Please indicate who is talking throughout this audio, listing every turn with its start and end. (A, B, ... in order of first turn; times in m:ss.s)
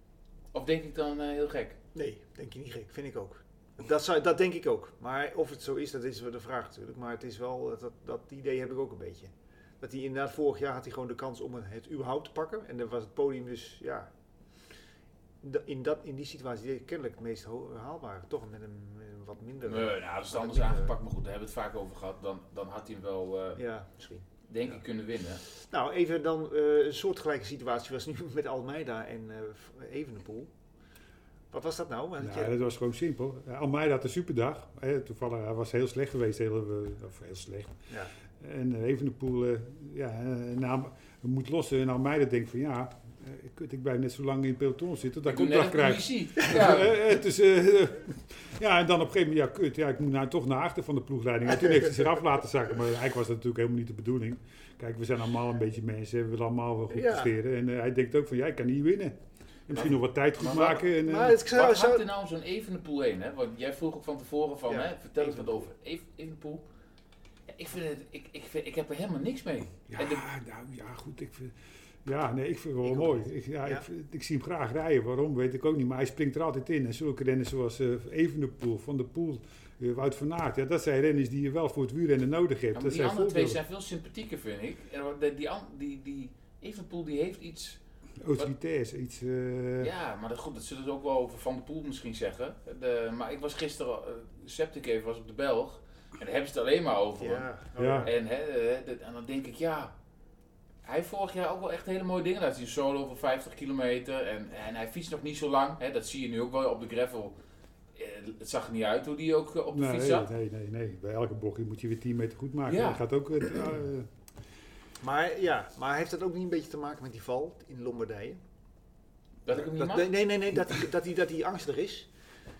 0:00.5-0:01.8 A
0:01.9-0:14.1 B
0:15.4-0:21.0 B
0:19.6-0:23.6 A
0:23.6-0:24.8 B
0:24.5-0:25.4 A
0:25.5-0:30.5 B
0:31.5-0:32.6 B
0:32.2-0:37.8 C
0:38.4-0:59.2 C
0:45.3-0:47.0 A
0:56.9-0:57.3 B
0:59.7-1:01.4 C
0:59.8-1:00.9 A
1:00.9-1:02.1 B
1:01.4-1:06.6 A
1:04.7-1:05.6 B
1:07.5-1:10.2 A
1:09.9-1:23.6 C
1:12.8-1:13.9 B
1:22.7-1:27.8 A
1:28.2-1:29.9 C
1:29.8-1:37.5 A
1:37.2-1:38.1 B
1:37.8-1:38.1 C
1:38.0-1:39.9 A
1:40.8-1:47.4 A
1:47.9-1:50.3 A
1:49.7-1:54.1 C
1:52.7-1:53.0 A
1:55.0-1:58.4 B
1:59.4-2:00.1 A
1:59.5-2:02.1 B